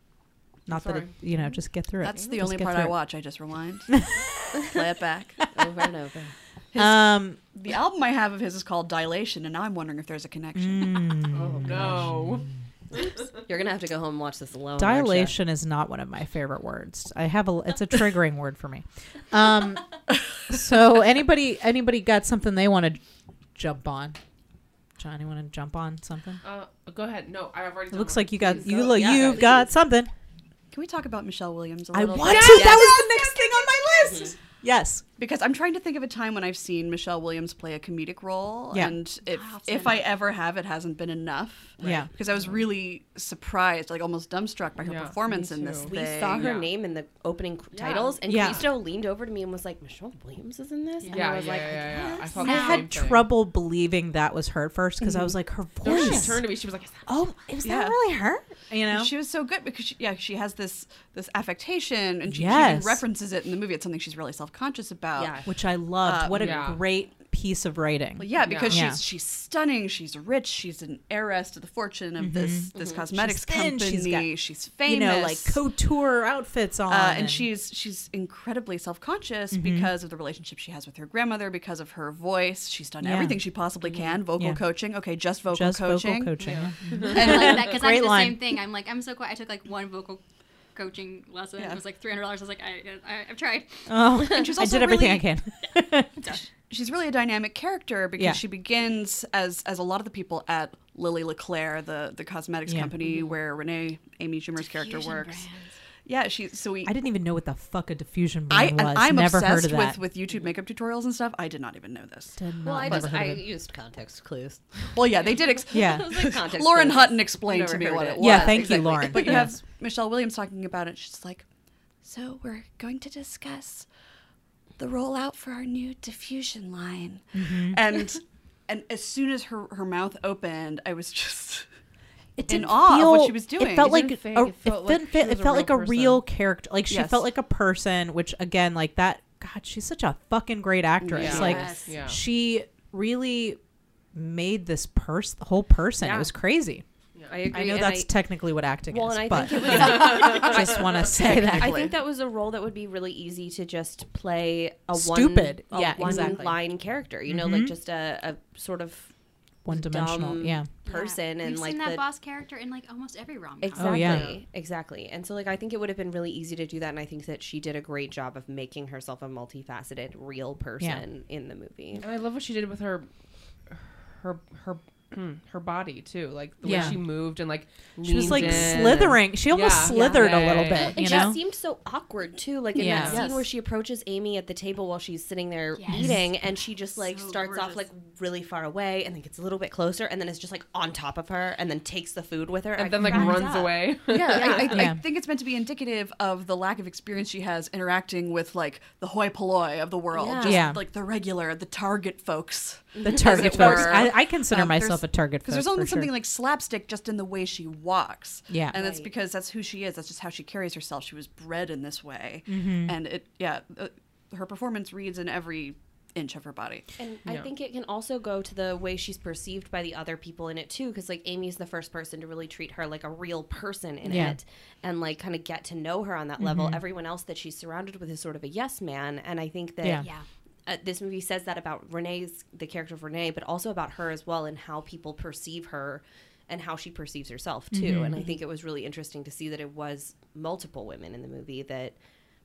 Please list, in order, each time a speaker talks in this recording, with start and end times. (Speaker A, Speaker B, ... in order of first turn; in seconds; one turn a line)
Speaker A: 0.7-3.0
Speaker B: 0.7-1.1
Speaker C: 2.0-4.1
Speaker A: 4.0-4.3
Speaker C: 4.6-5.5
Speaker D: 5.5-6.3
Speaker C: 6.7-11.2
Speaker A: 6.8-7.4
Speaker A: 10.6-12.6
Speaker B: 11.3-13.3
Speaker D: 13.4-15.4
Speaker A: 14.8-23.0
Speaker A: 23.6-24.2
Speaker A: 25.0-26.4
Speaker B: 26.4-28.6
Speaker A: 27.9-30.1
Speaker D: 28.4-29.7
Speaker C: 30.7-34.4
Speaker A: 31.9-35.0
Speaker D: 32.4-32.9
Speaker D: 34.0-34.4
Speaker C: 35.2-46.5
Speaker A: 38.7-39.0
Speaker E: 39.3-40.1
Speaker D: 41.8-42.1
Speaker A: 41.8-42.1
Speaker B: 44.8-46.7
Speaker D: 45.8-52.3
Speaker A: 48.3-48.7
Speaker E: 51.0-51.3
Speaker B: 51.1-53.3
Speaker A: 52.0-56.5
Speaker E: 52.3-52.9
Speaker C: 55.0-55.4
Speaker B: 55.8-57.2
Speaker C: 55.9-56.2
Speaker A: 57.1-59.1
Speaker C: 57.6-58.0
Speaker C: 58.9-65.4
Speaker A: 62.3-63.0
Speaker D: 65.2-65.5
Speaker A: 65.5-69.0
Speaker C: 66.0-66.7
Speaker B: 66.3-66.8
Speaker C: 68.2-75.6
Speaker B: 68.4-68.8
Speaker A: 72.2-74.3
Speaker D: 72.7-73.0
Speaker A: 74.8-77.5
Speaker C: 76.9-86.4
Speaker A: 79.5-79.9
Speaker A: 83.0-83.4
Speaker A: 84.3-84.6
Speaker A: 85.5-88.5
Speaker B: 86.4-87.1
Speaker E: 87.0-90.2
Speaker C: 87.1-87.7
Speaker E: 90.8-93.9
Speaker A: 93.9-96.2
Speaker C: 94.2-95.3
Speaker E: 96.2-96.5
Speaker C: 96.3-105.5
Speaker A: 98.2-98.4
Speaker A: 102.7-102.9
Speaker E: 104.6-105.8
Speaker C: 106.0-107.0
Speaker A: 106.8-110.0
Speaker C: 108.5-113.1
Speaker A: 112.4-113.5
Speaker D: 112.6-119.5
Speaker C: 114.9-121.5
Speaker A: 115.7-116.3
Speaker A: 118.2-119.6
Speaker C: 122.0-123.9
Speaker C: 124.8-131.7
Speaker A: 127.3-127.8
Speaker A: 132.4-143.6
Speaker C: 132.5-134.1
Speaker B: 133.8-136.2
Speaker C: 136.9-137.3
Speaker C: 141.0-141.5
Speaker D: 141.1-141.8
Speaker B: 141.2-142.2
Speaker E: 141.3-141.9
Speaker A: 144.1-146.8
Speaker D: 146.0-146.3
Speaker D: 147.3-148.2
Speaker A: 147.5-151.9
Speaker D: 148.9-159.1
Speaker C: 150.4-152.0
Speaker A: 154.9-156.6
Speaker A: 157.2-157.7
Speaker A: 159.7-160.7
Speaker D: 159.7-162.0
Speaker E: 160.8-164.3
Speaker D: 163.6-172.1
Speaker A: 163.8-164.3
Speaker B: 172.0-173.1
Speaker B: 173.7-180.9
Speaker A: 176.6-177.0
Speaker A: 178.0-181.4
Speaker D: 178.2-179.2
Speaker D: 179.9-194.9
Speaker A: 182.8-183.2
Speaker C: 183.1-183.4
Speaker E: 185.8-186.2
Speaker E: 187.0-187.8
Speaker B: 192.8-194.5
Speaker A: 193.1-193.5
Speaker C: 194.2-216.9
Speaker A: 194.7-195.0
Speaker D: 200.1-200.7
Speaker A: 200.4-200.8
Speaker D: 202.9-204.1
Speaker A: 203.0-206.1
Speaker A: 208.5-208.8
Speaker D: 208.7-209.1
Speaker A: 212.5-213.0
Speaker D: 217.0-230.1
Speaker A: 224.1-224.4
Speaker A: 226.4-226.8
Speaker A: 229.8-230.1
Speaker E: 230.0-230.3
Speaker D: 230.7-242.0
Speaker A: 237.7-238.3